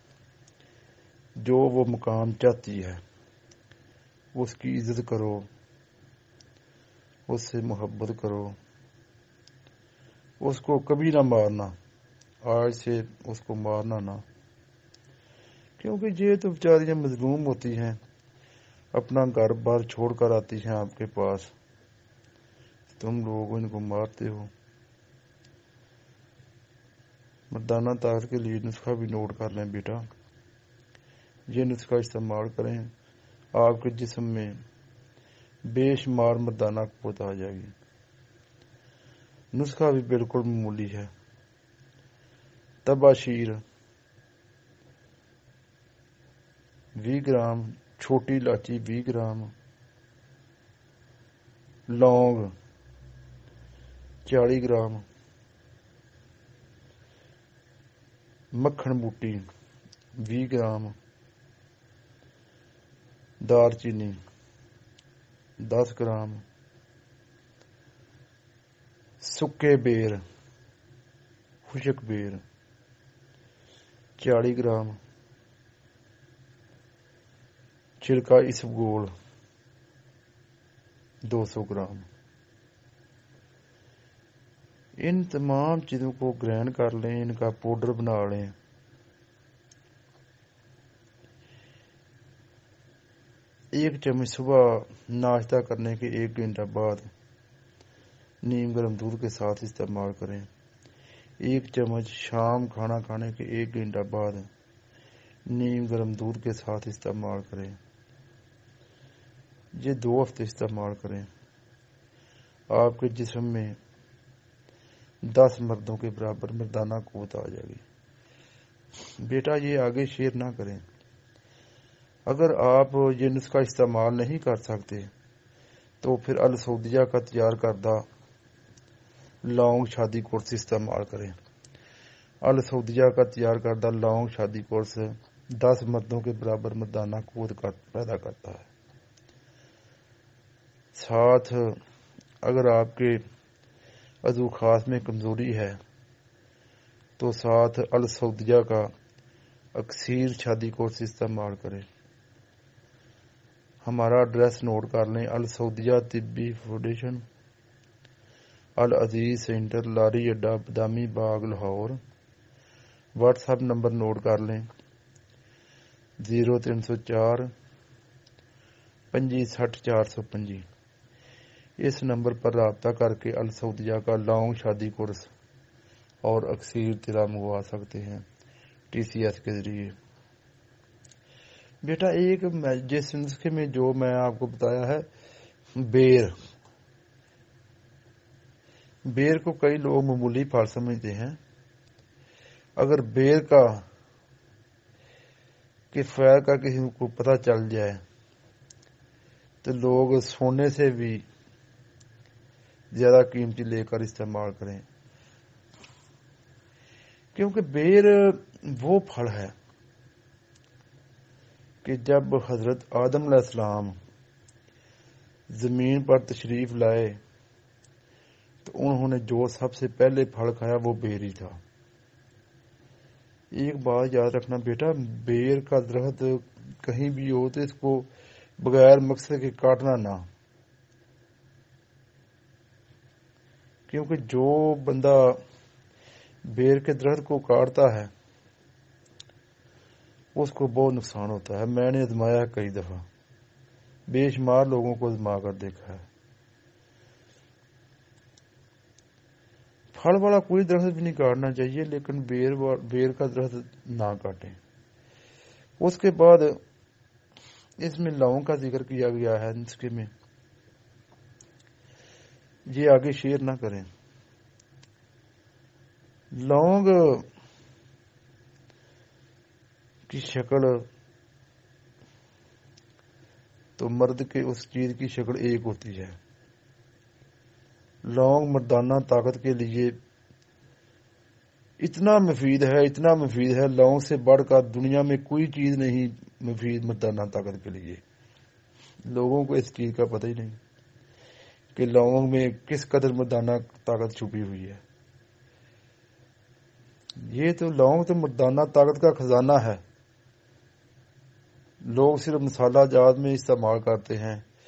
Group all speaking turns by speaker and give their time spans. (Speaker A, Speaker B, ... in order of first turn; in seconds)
Speaker A: 1.4-3.0, 4.3-5.4, 7.3-8.6, 10.4-11.7, 12.4-14.2, 15.8-18.0, 18.9-21.5, 23.0-24.5, 27.5-30.0, 31.5-32.9, 33.5-34.5, 35.6-37.7, 39.5-41.1, 42.8-43.6, 47.0-49.5, 51.9-52.5, 54.2-55.0, 58.5-59.4, 60.2-60.9, 63.4-64.2, 65.6-66.4, 69.2-70.2, 71.7-72.4, 74.2-75.0, 78.0-79.1, 81.2-82.1, 85.0-88.5, 93.7-97.1, 98.4-100.5, 101.4-104.5, 105.5-107.8, 109.7-111.3, 112.7-113.8, 115.2-117.8, 119.2-120.8, 122.2-125.1, 126.0-128.1, 129.4-131.3, 132.4-138.7, 140.9-141.8, 142.4-143.2, 144.2-145.8, 147.2-148.9, 149.7-151.8, 153.8-157.2, 158.8-162.0, 163.2-164.7, 166.2-167.5, 169.1-170.6, 171.8-175.3, 176.2-178.2, 178.9-179.9, 181.8-185.1, 185.8-186.3, 189.0-191.4, 192.8-193.8, 195.9-198.0, 199.6-201.2, 202.9-204.8, 207.3-209.5, 211.8-213.9, 215.5-217.2, 218.6-221.6, 223.5-230.3, 233.9-235.4, 236.5-238.1, 240.3-243.1, 244.1-246.0, 249.9-254.6, 255.8-256.6, 257.8-260.1, 262.7-263.9, 266.3-267.3, 270.1-270.9, 273.8-276.1, 278.0-280.0, 281.8-288.0, 289.1-290.6, 291.7-294.8, 297.2-299.8, 301.8-304.4